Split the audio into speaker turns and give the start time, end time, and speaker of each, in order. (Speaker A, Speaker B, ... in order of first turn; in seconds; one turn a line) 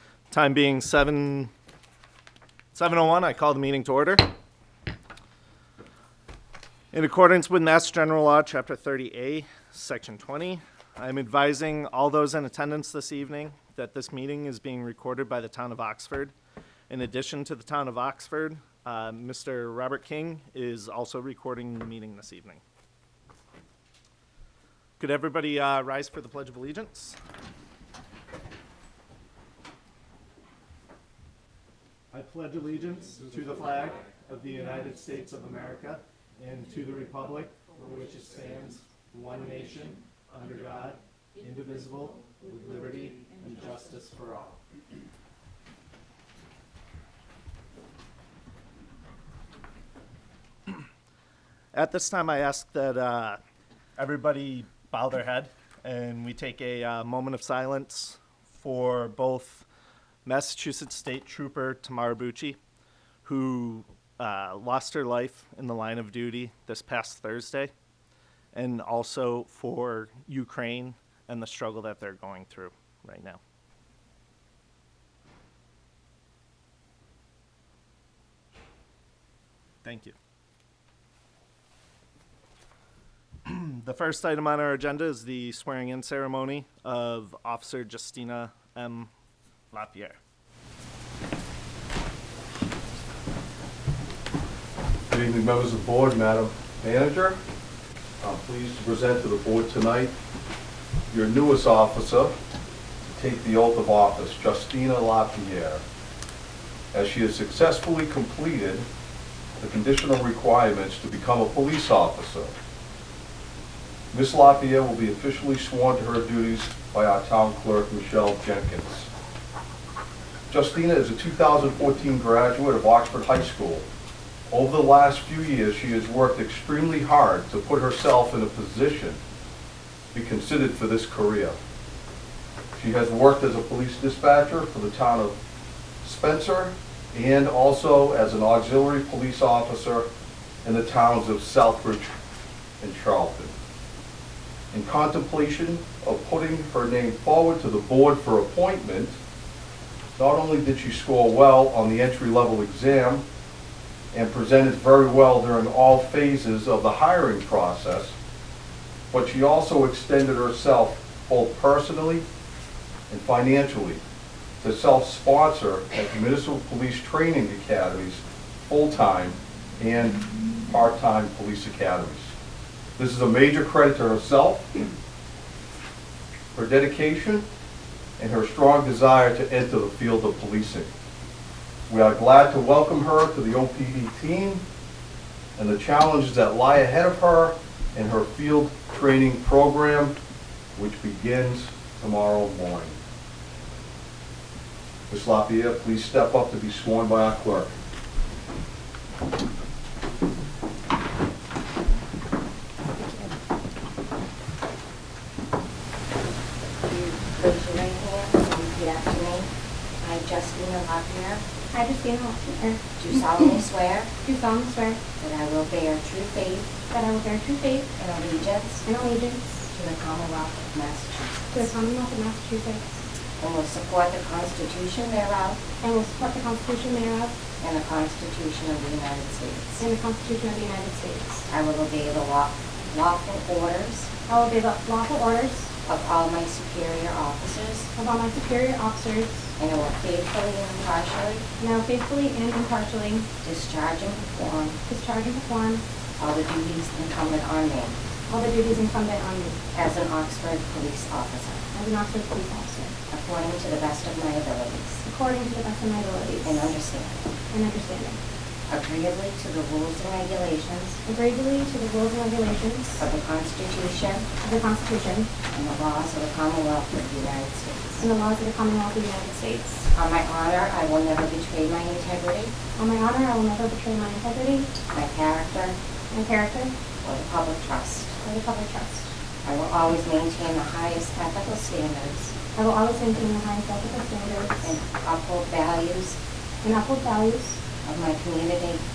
Speaker A: 0.3-1.5
Speaker A: 2.7-4.3
Speaker A: 6.9-16.3
Speaker A: 16.9-22.6
Speaker A: 25.0-27.1
Speaker A: 32.1-44.6
Speaker A: 51.7-53.4
Speaker A: 54.0-59.6
Speaker A: 60.2-62.6
Speaker A: 63.2-67.7
Speaker A: 68.5-73.4
Speaker A: 79.8-80.2
Speaker A: 83.4-89.1
Speaker A: 89.7-90.2
Speaker B: 95.1-97.4
Speaker B: 98.2-100.1
Speaker B: 101.1-102.3
Speaker B: 103.1-105.8
Speaker B: 106.9-108.9
Speaker B: 109.6-112.5
Speaker B: 114.1-119.1
Speaker B: 120.5-123.9
Speaker B: 124.5-129.2
Speaker B: 130.1-131.6
Speaker B: 132.7-135.4
Speaker B: 136.0-140.1
Speaker B: 140.6-142.1
Speaker B: 142.8-143.5
Speaker B: 144.7-149.2
Speaker B: 150.2-153.2
Speaker B: 154.1-158.2
Speaker B: 159.1-162.2
Speaker B: 163.1-164.0
Speaker B: 164.6-172.3
Speaker B: 173.0-174.7
Speaker B: 176.5-177.5
Speaker B: 178.2-180.9
Speaker B: 181.9-184.6
Speaker B: 185.6-190.2
Speaker B: 190.7-193.0
Speaker B: 195.1-197.7
Speaker C: 206.9-209.5
Speaker C: 210.0-211.4
Speaker D: 211.7-212.8
Speaker C: 213.0-214.1
Speaker D: 214.2-215.0
Speaker C: 215.2-216.7
Speaker D: 216.9-217.8
Speaker C: 217.9-218.8
Speaker D: 218.8-219.5
Speaker C: 219.7-221.7
Speaker D: 221.5-223.0
Speaker C: 223.4-225.6
Speaker D: 225.8-227.3
Speaker C: 227.6-229.8
Speaker D: 229.8-231.4
Speaker C: 231.5-234.1
Speaker D: 234.3-235.7
Speaker C: 235.8-237.9
Speaker D: 237.9-239.4
Speaker C: 239.6-241.4
Speaker D: 241.6-243.2
Speaker C: 243.4-244.8
Speaker D: 244.8-245.8
Speaker C: 246.2-248.0
Speaker D: 248.3-249.6
Speaker C: 249.7-251.6
Speaker D: 251.7-252.9
Speaker C: 253.1-255.0
Speaker D: 255.0-256.5
Speaker C: 256.4-257.3
Speaker D: 257.5-258.2
Speaker C: 258.7-261.0
Speaker D: 261.0-263.0
Speaker C: 263.0-264.3
Speaker D: 264.4-265.3
Speaker C: 265.5-268.0
Speaker D: 268.0-269.8
Speaker C: 269.9-272.5
Speaker D: 272.8-274.6
Speaker C: 274.9-275.8
Speaker D: 276.1-276.7
Speaker C: 277.0-278.2
Speaker D: 278.2-279.0
Speaker C: 279.4-282.3
Speaker D: 282.5-284.7
Speaker C: 284.6-286.2
Speaker D: 286.6-287.6
Speaker C: 287.8-288.8